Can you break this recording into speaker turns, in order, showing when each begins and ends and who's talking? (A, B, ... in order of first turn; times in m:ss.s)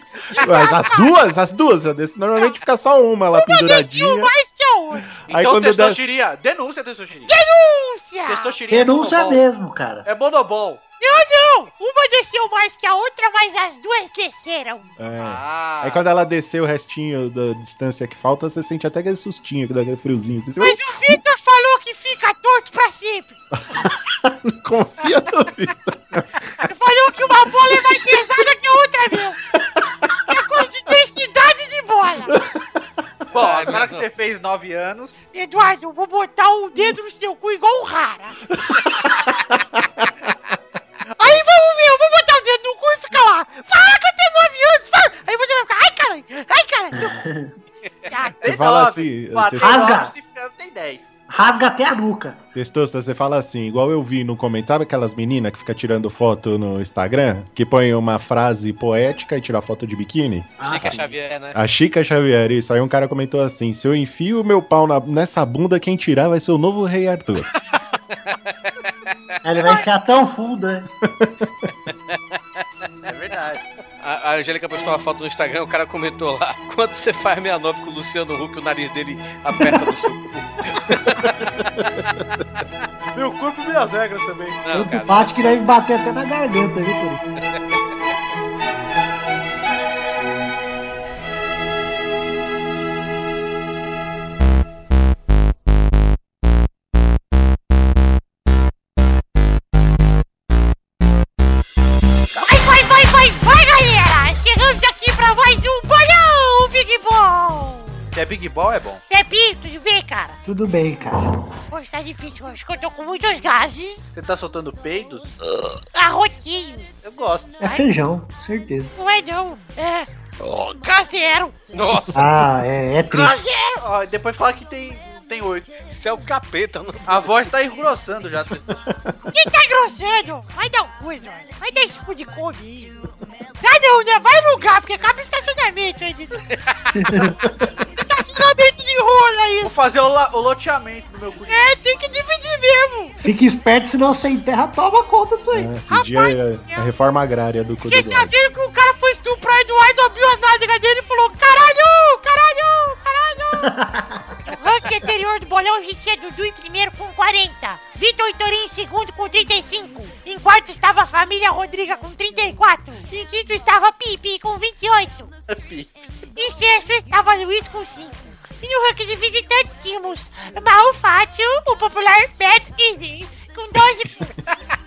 0:00.3-0:04.3 A
0:00.3-0:01.2 B
0:03.3-0:05.0 B
0:05.1-0:06.2 A
0:05.3-0:07.3 C
0:07.3-0:08.6 B
0:08.3-0:09.4 C
0:08.7-0:10.0 D
0:10.0-0:10.8 C
0:11.0-0:14.9 B
0:15.0-0:21.2 A
0:15.2-0:16.0 C
0:20.6-0:23.4 B
0:23.5-0:26.7 A
0:26.6-0:29.4 B
0:27.9-0:28.2 A
0:29.5-0:30.1 A
0:30.3-0:32.3 B
0:32.3-0:32.6 A
0:33.3-0:35.2 C
0:33.3-0:34.0 E
0:35.3-0:38.4 B
0:38.5-0:40.1 A
0:41.2-0:47.2 B
0:46.9-0:47.5 D
0:48.1-0:48.7 B
0:48.4-0:50.0 A
0:48.4-0:51.1 C
0:49.6-0:50.1 D
0:51.3-0:52.4 D
0:52.5-1:01.0 A
1:00.6-1:01.1 D
1:00.6-1:01.6 E
1:01.5-1:07.5 A
1:09.4-1:10.9 D
1:11.0-1:11.3 A
1:13.0-1:13.6 C
1:14.0-1:21.8 E
1:23.1-1:24.6 C
1:24.6-1:25.6 E
1:24.7-1:27.2 D
1:42.4-1:48.0 B
1:48.1-1:49.0 C
1:49.1-1:50.4 B
1:50.4-1:51.3 D
1:51.7-1:54.0 B
1:54.1-1:55.3 C
1:55.9-1:57.0 B
1:57.0-1:57.6 C
1:57.6-1:58.9 D
1:57.6-1:57.8 B
1:59.0-2:00.1 B
2:00.6-2:01.6 B
2:01.7-2:02.2 E
2:02.1-2:03.4 D
2:03.1-2:03.8 B
2:03.8-2:05.7 C
2:05.9-2:07.5 E
2:07.0-2:08.8 C
2:09.3-2:13.0 B
2:13.6-2:16.5 B
2:16.9-2:17.4 D
2:17.9-2:19.8 B
2:19.6-2:21.7 C
2:21.5-2:23.1 B
2:23.2-2:25.7 D
2:25.5-2:28.3 A
2:25.9-2:26.9 B
2:27.9-2:33.7 B
2:33.6-2:34.2 D
2:34.5-2:45.3 B
2:45.5-2:46.0 C
2:46.4-2:54.3 B